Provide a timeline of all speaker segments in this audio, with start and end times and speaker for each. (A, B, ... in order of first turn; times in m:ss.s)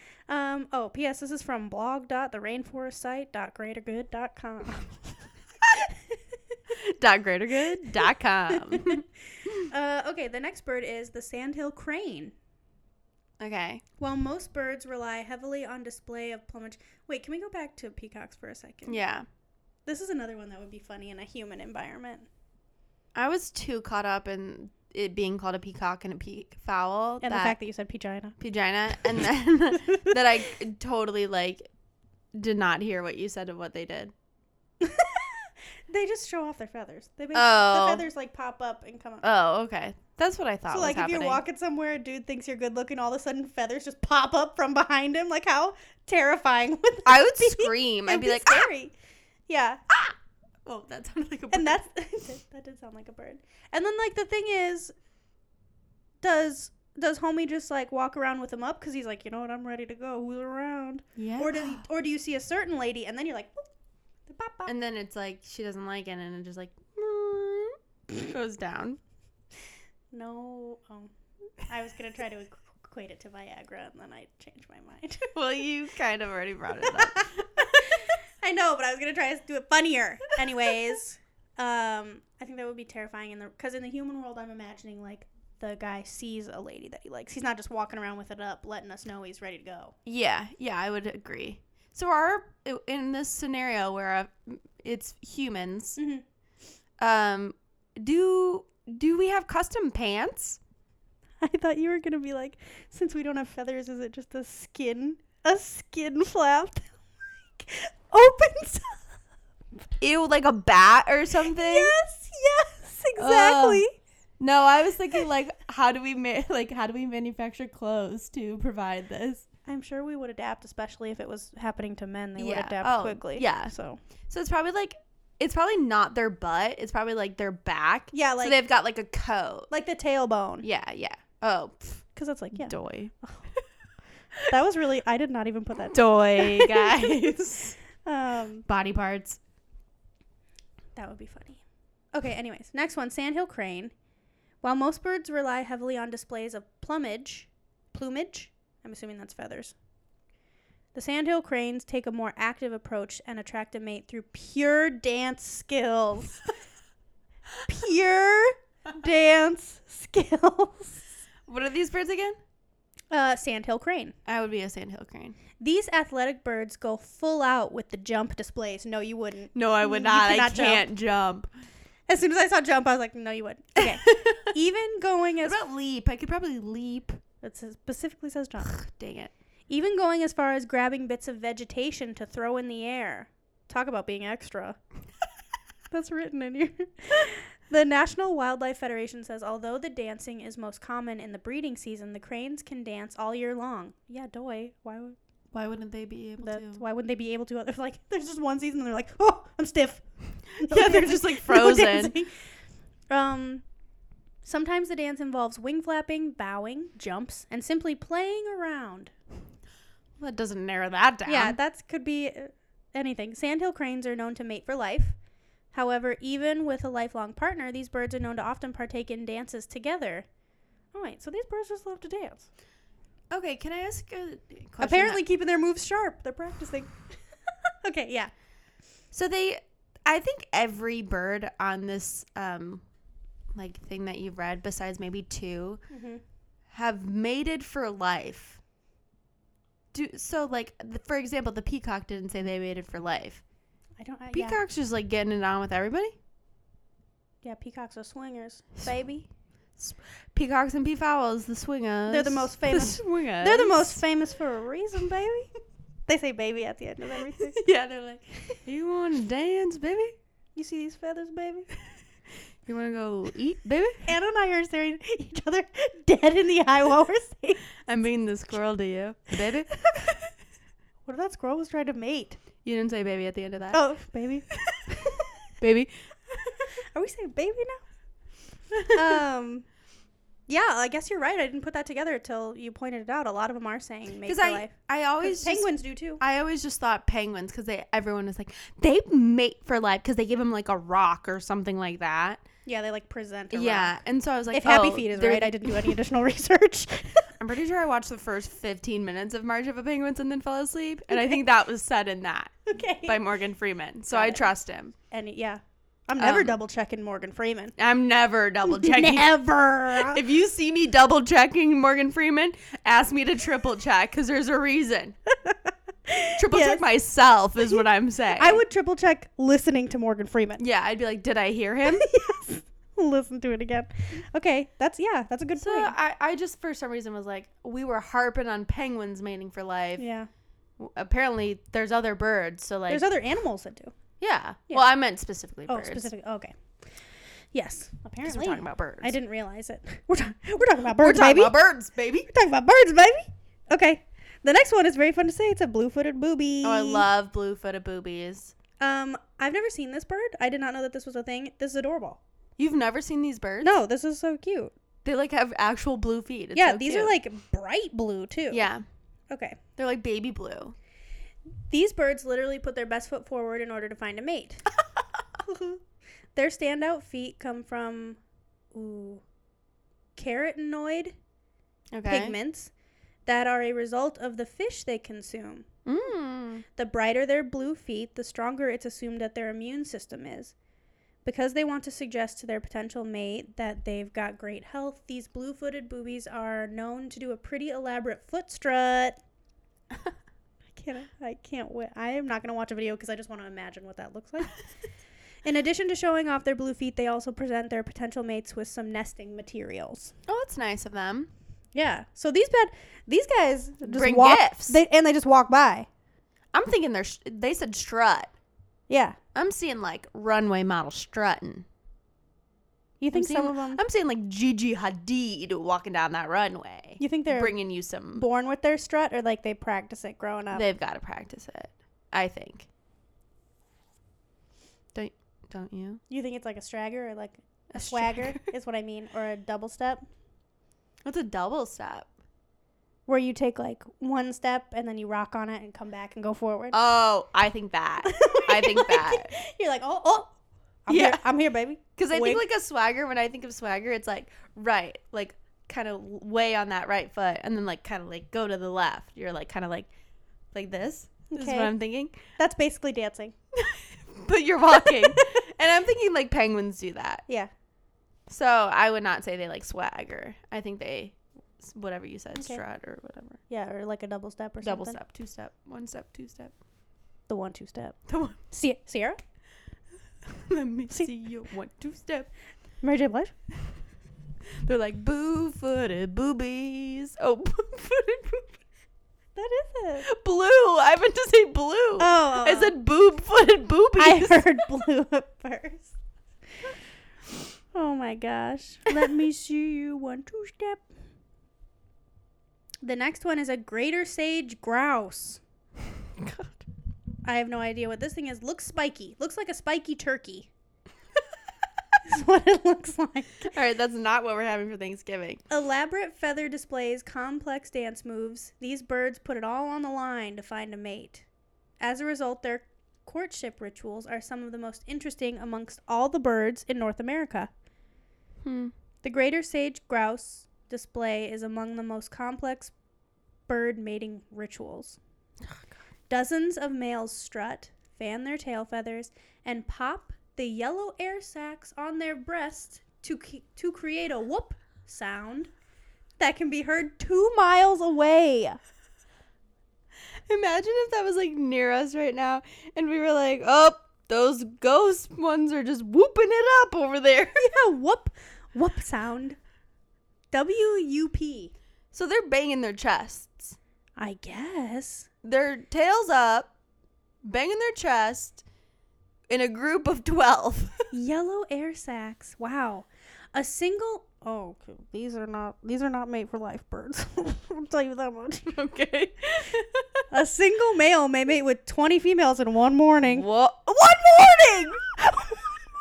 0:00.3-0:05.1 A
0:05.7-0:06.0 A
0:06.7-0:09.7 B
0:08.5-0:09.0 A
0:09.6-0:12.3 A
0:13.4-0:13.8 B
0:14.0-0:19.0 A
0:18.9-0:19.3 B
0:19.9-0:22.3 A
0:23.2-0:27.6 B
0:27.2-0:28.4 A
0:28.4-0:31.6 B
0:29.9-0:30.2 A
0:32.4-0:34.1 B
0:34.8-0:39.3 A
0:37.3-0:38.0 B
0:39.2-0:41.4 B
0:40.7-0:48.9 A
0:47.1-0:48.7 B
0:49.5-0:50.1 A
0:50.6-0:51.8 B
0:51.5-0:54.9 A
0:56.2-1:03.7 A
1:01.2-1:01.8 B
1:04.3-1:04.7 A
1:04.7-1:09.0 B
1:10.1-1:15.4 A
1:15.4-1:17.9 B
1:16.9-1:30.0 A
1:30.0-1:36.0 B
1:36.0-1:36.2 A
1:37.0-1:40.6 B
1:41.4-1:46.9 A
1:47.6-1:49.0 A
1:50.0-1:52.0 B
1:51.5-1:53.9 A
1:53.2-1:53.8 B
1:54.4-1:59.5 B
1:59.7-2:04.0 A
2:02.4-2:03.7 B
2:04.3-2:09.7 B
2:08.1-2:08.6 A
2:09.7-2:10.7 A
2:10.6-2:13.1 B
2:12.2-2:13.5 A
2:14.5-2:17.3 A
2:15.8-2:17.8 B
2:18.0-2:18.7 A
2:18.7-2:19.4 B
2:21.0-2:21.6 A
2:22.1-2:23.9 A
2:24.6-2:29.8 A
2:30.9-2:36.4 A
2:37.7-2:41.0 A
2:41.5-2:42.4 B
2:43.1-2:44.2 A
2:44.3-2:45.4 B
2:45.6-2:50.9 A
2:49.5-2:51.5 B
2:52.1-2:55.6 A
2:53.9-2:54.4 B
2:55.4-2:57.2 B
2:57.4-2:58.8 A
2:58.6-2:59.3 B
2:59.7-3:04.8 A
3:05.9-3:15.2 A
3:15.5-3:16.8 B
3:16.4-3:22.4 A
3:20.6-3:22.2 B
3:23.1-3:23.6 A
3:24.4-3:29.1 A
3:30.2-3:31.6 B
3:31.3-3:35.2 A
3:35.7-3:40.3 A
3:40.9-3:42.5 A
3:43.3-3:45.2 B
3:44.8-3:47.1 A
3:47.8-3:48.3 A
3:49.1-3:52.8 B
3:53.5-3:55.8 B
3:55.9-3:56.2 A
3:56.7-3:58.6 B
3:59.9-4:03.4 B
4:04.0-4:04.6 A
4:04.3-4:06.2 B
4:07.4-4:09.3 A
4:09.8-4:14.0 B
4:12.1-4:15.5 A
4:16.1-4:17.6 A
4:17.3-4:20.2 B
4:20.6-4:21.7 A
4:22.7-4:24.0 B
4:24.0-4:27.6 A
4:27.9-4:30.2 B
4:31.1-4:32.4 A
4:32.6-4:33.8 B
4:33.7-4:35.3 A
4:35.6-4:36.6 B
4:36.9-4:37.8 A
4:38.8-4:39.2 B
4:38.8-4:39.7 A
4:40.5-4:46.2 A
4:44.2-4:52.4 B
4:52.7-4:54.0 A
4:53.5-4:56.0 B
4:54.5-4:57.3 A
4:57.4-5:04.9 B
5:01.1-5:01.4 A
5:02.7-5:03.2 A
5:04.1-5:04.5 A
5:05.1-5:07.7 A
5:06.2-5:06.6 B
5:07.8-5:15.2 B
5:08.6-5:10.2 A
5:15.4-5:16.8 A
5:16.4-5:18.6 B
5:18.4-5:20.6 A
5:20.6-5:22.1 B
5:21.8-5:25.9 A
5:25.6-5:30.0 B
5:30.0-5:30.3 A
5:30.8-5:33.1 B
5:32.9-5:34.0 A
5:34.2-5:36.1 B
5:35.7-5:36.5 A
5:37.5-5:41.6 A
5:38.2-5:39.2 B
5:41.0-5:42.3 B
5:42.3-5:47.1 A
5:46.6-5:48.5 B
5:48.8-5:52.2 A
5:52.6-5:53.7 B
5:53.6-5:54.7 A
5:55.0-5:57.2 B
5:56.6-5:58.7 A
5:58.5-5:58.8 B
5:59.3-5:59.6 A
5:59.8-6:00.8 B
6:01.7-6:04.6 A
6:05.4-6:05.8 A
6:06.4-6:08.2 A
6:08.7-6:09.2 A
6:10.2-6:11.2 A
6:11.9-6:12.4 B
6:12.1-6:12.7 A
6:13.3-6:15.7 A
6:15.9-6:16.6 B
6:16.8-6:20.5 A
6:21.2-6:29.2 A
6:30.8-6:34.6 A
6:35.4-6:40.1 A
6:40.3-6:41.3 B
6:41.7-6:45.9 A
6:43.8-6:44.8 B
6:46.5-6:48.3 B
6:48.9-6:49.2 A
6:49.4-6:51.7 B
6:53.0-6:53.8 A
6:53.1-6:58.2 B
6:57.0-6:57.6 A
6:58.1-7:00.7 A
7:00.5-7:02.7 B
7:04.9-7:06.0 B
7:06.1-7:10.0 A
7:07.7-7:08.4 B
7:11.0-7:12.1 B
7:13.1-7:16.8 A
7:16.7-7:19.3 B
7:18.0-7:20.3 A
7:20.9-7:22.4 A
7:20.9-7:21.2 B
7:22.0-7:29.9 B
7:30.5-7:32.1 B
7:31.3-7:31.7 A
7:32.4-7:33.3 A
7:33.5-7:37.2 B
7:34.8-7:35.4 A
7:38.3-7:43.4 B
7:42.4-7:42.6 A
7:43.5-7:45.0 A
7:44.6-7:46.5 B
7:47.3-7:48.0 A
7:48.1-7:48.4 B
7:48.5-7:49.2 A
7:50.2-7:52.3 B
7:52.8-7:53.3 A
7:54.6-7:58.6 B
7:59.4-8:00.1 A
8:00.1-8:04.7 B
8:02.0-8:02.8 A
8:04.0-8:06.0 A
8:07.7-8:10.8 A
8:12.8-8:15.4 A
8:16.2-8:16.6 B
8:17.2-8:20.5 A
8:22.1-8:23.5 A
8:23.5-8:25.4 B
8:25.5-8:31.3 A
8:31.8-8:37.5 A
8:38.4-8:38.7 B
8:39.0-8:42.7 A
8:43.5-8:45.0 A
8:46.1-8:55.5 A
8:56.2-8:58.6 A
9:00.3-9:07.4 B
9:07.4-9:09.4 A
9:10.3-9:11.5 A
9:11.9-9:13.6 B
9:14.0-9:15.1 A
9:15.2-9:16.5 B
9:17.2-9:18.4 B
9:19.3-9:20.8 B
9:20.9-9:28.6 A
9:28.5-9:30.0 B
9:30.1-9:33.3 A
9:33.1-9:35.5 B